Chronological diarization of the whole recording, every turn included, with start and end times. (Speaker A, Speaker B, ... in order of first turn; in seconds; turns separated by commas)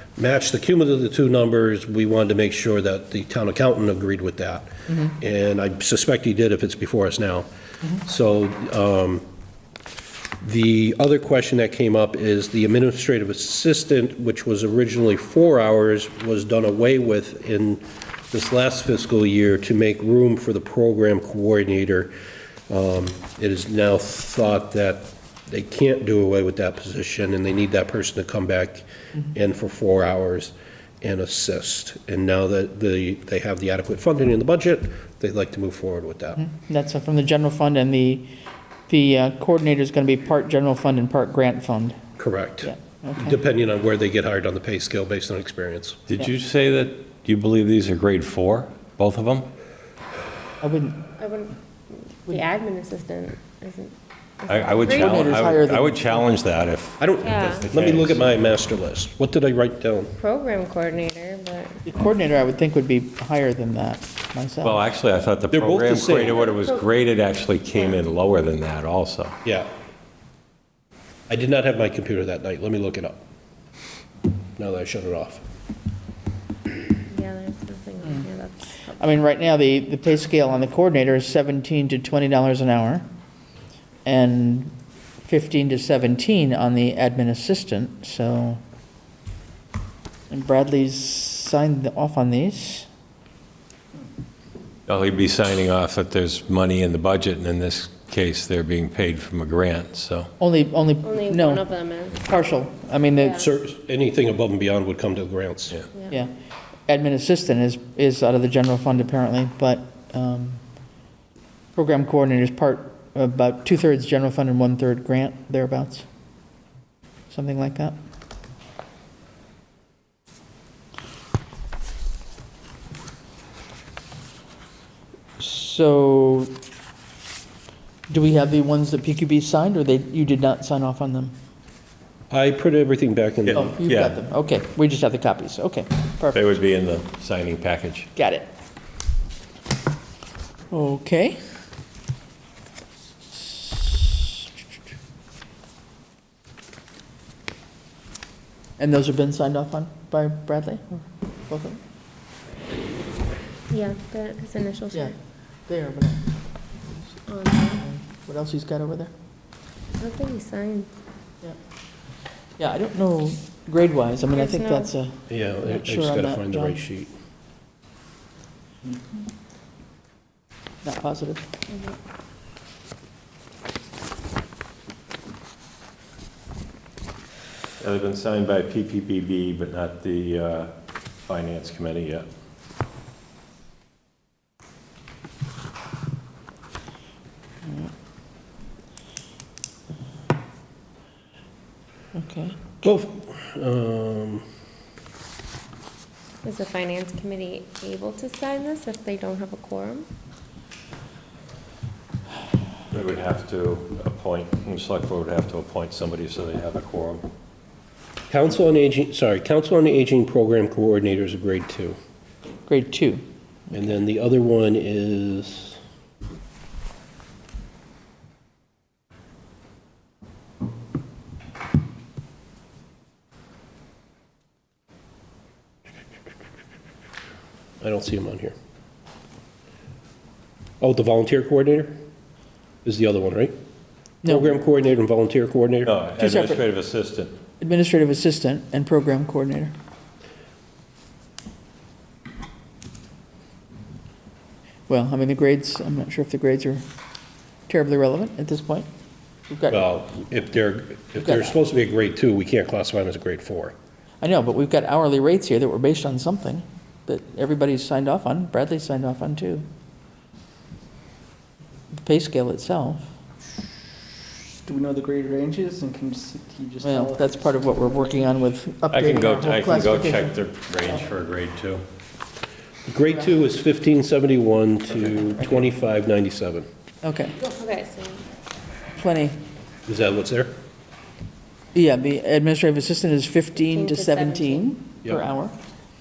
Speaker A: 0.2-9.2, Speaker B: 4.9-5.2, Speaker A: 10.4-22.1, Speaker A: 22.7-36.4, Speaker B: 36.3-38.3, Speaker B: 38.9-42.0, Speaker A: 42.2-46.0, Speaker B: 42.6-43.4, Speaker C: 46.1-49.5, Speaker B: 50.6-51.0, Speaker D: 51.2-55.5, Speaker C: 54.5-58.2, Speaker B: 54.9-56.3, Speaker A: 57.0-60.2, Speaker D: 57.2-57.7, Speaker D: 60.2-61.9, Speaker B: 61.9-64.8, Speaker C: 64.6-69.4, Speaker A: 65.5-66.5, Speaker D: 66.4-66.9, Speaker A: 69.4-69.7, Speaker A: 71.3-73.2, Speaker A: 74.6-75.4, Speaker D: 77.1-79.2, Speaker B: 79.0-83.0, Speaker B: 84.0-88.6, Speaker B: 90.3-92.9, Speaker C: 94.9-100.3, Speaker B: 100.4-101.7, Speaker D: 101.0-102.2, Speaker B: 102.2-103.4, Speaker D: 103.2-103.5, Speaker A: 103.4-105.8, Speaker B: 106.9-110.6, Speaker B: 111.8-116.0, Speaker B: 117.3-118.0, Speaker B: 125.4-126.5, Speaker B: 128.1-131.3, Speaker A: 132.3-133.7, Speaker C: 133.5-134.2, Speaker B: 133.5-136.4, Speaker C: 136.3-138.1, Speaker B: 138.2-138.5, Speaker B: 140.7-141.4, Speaker B: 143.3-144.2, Speaker B: 148.8-151.8, Speaker D: 153.7-155.1, Speaker B: 155.7-156.3, Speaker D: 157.3-157.8, Speaker B: 157.7-159.1, Speaker D: 160.0-160.9, Speaker B: 162.6-166.8, Speaker D: 164.3-164.9, Speaker A: 165.3-167.1, Speaker B: 170.8-171.4, Speaker D: 171.7-172.0, Speaker C: 177.8-180.7, Speaker C: 181.3-182.3, Speaker B: 192.1-192.6, Speaker A: 192.8-194.4, Speaker D: 196.4-200.1, Speaker C: 202.9-207.2, Speaker A: 208.3-212.0, Speaker B: 212.7-213.2, Speaker A: 213.7-215.8, Speaker A: 227.8-228.6, Speaker A: 230.8-232.0, Speaker A: 232.8-233.6, Speaker B: 234.2-234.6, Speaker A: 234.2-235.9, Speaker C: 235.8-237.3, Speaker B: 236.2-236.6, Speaker B: 237.6-239.7, Speaker B: 244.9-246.8, Speaker B: 247.7-248.9, Speaker B: 249.5-249.9, Speaker A: 249.7-253.8, Speaker B: 251.2-251.6, Speaker B: 254.2-259.6, Speaker B: 262.0-263.1, Speaker E: 264.6-267.6, Speaker B: 266.8-270.4, Speaker C: 268.9-271.8, Speaker A: 272.9-276.7, Speaker B: 277.0-277.4, Speaker D: 277.4-278.2, Speaker B: 279.0-279.4, Speaker A: 279.9-280.5, Speaker B: 281.7-285.6, Speaker D: 283.6-284.7